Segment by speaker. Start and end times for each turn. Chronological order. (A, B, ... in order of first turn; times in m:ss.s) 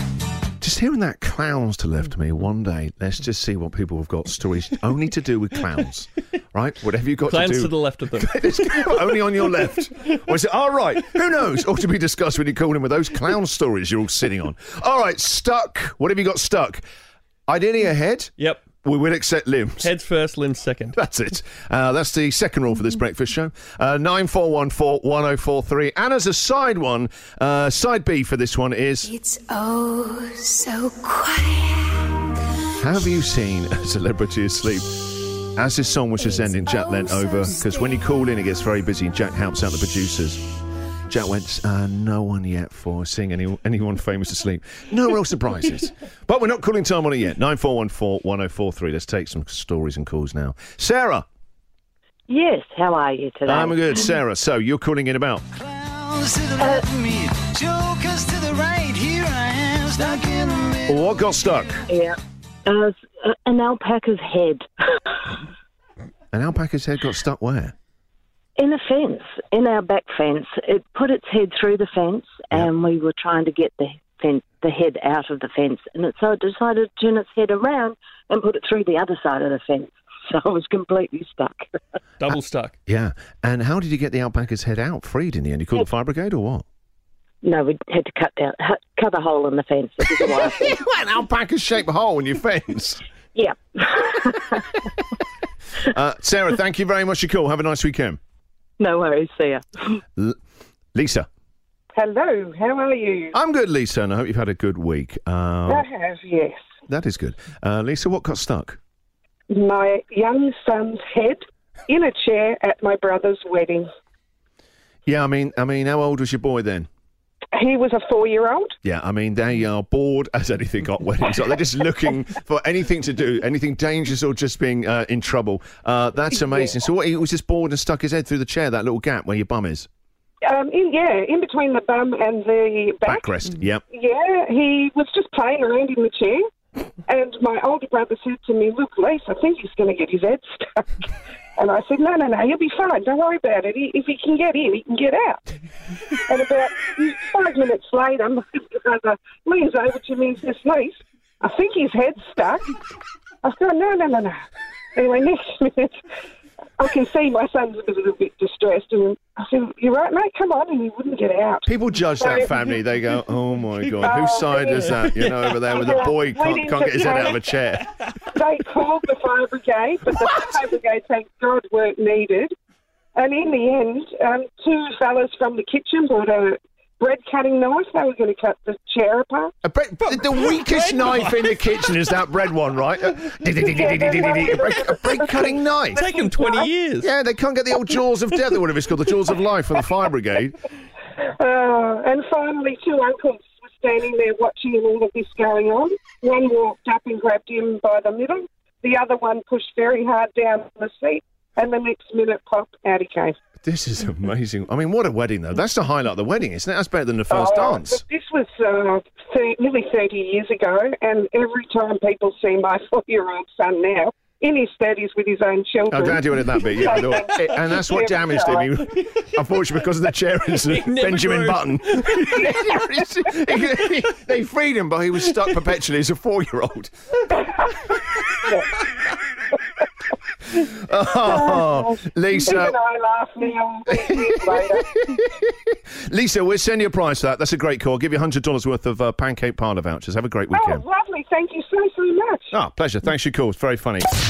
0:00.6-0:16.8 A
0:07.3-0:08.4 B
0:17.5-0:19.9 A
0:18.4-0:18.6 B
0:19.8-0:21.0 B
0:20.9-0:29.2 A
0:29.5-0:31.8 C
0:32.8-0:40.4 A
0:41.1-0:51.2 A
0:52.3-0:53.8 D
0:53.4-0:55.4 A
0:55.6-1:01.0 E
1:00.9-1:01.8 A
1:02.7-1:04.6 D
1:06.3-1:07.7 A
1:08.6-1:21.7 D
1:22.2-1:22.7 B
1:22.9-1:26.6 A
1:27.4-1:30.7 D
1:30.1-1:33.0 A
1:33.4-1:34.4 D
1:35.9-1:38.2 A
1:38.8-1:40.0 D
1:40.9-1:41.3 A
1:41.9-1:43.3 F
1:43.3-1:45.8 A
1:45.7-1:46.6 F
1:46.9-1:48.8 A
1:49.5-1:53.9 F
1:55.0-1:56.9 A
1:57.5-1:58.8 F
1:58.8-2:09.9 A
2:10.4-2:13.3 F
2:13.0-2:13.8 A
2:13.9-2:16.5 F
2:17.0-2:25.4 F
2:26.2-2:32.7 F
2:33.4-2:34.4 F
2:34.9-2:36.0 F
2:36.8-2:42.5 F
2:41.6-2:47.9 A
2:44.0-2:44.9 F
2:45.0-2:46.0 B
2:45.7-2:47.4 F
2:48.3-2:52.5 F
2:53.1-2:59.5 F
2:59.6-3:06.0 A
3:00.1-3:01.6 B
3:03.7-3:06.6 F
3:06.0-3:07.1 B
3:07.0-3:10.6 A
3:11.4-3:23.4 F
3:23.6-3:28.0 A
3:27.3-3:38.7 F
3:35.9-3:46.9 A
3:40.7-3:42.2 B
3:50.5-3:52.8 A
3:51.3-3:51.9 F
3:52.4-3:54.9 F
3:54.0-4:00.8 A
4:00.5-4:02.5 F
4:02.5-4:04.1 A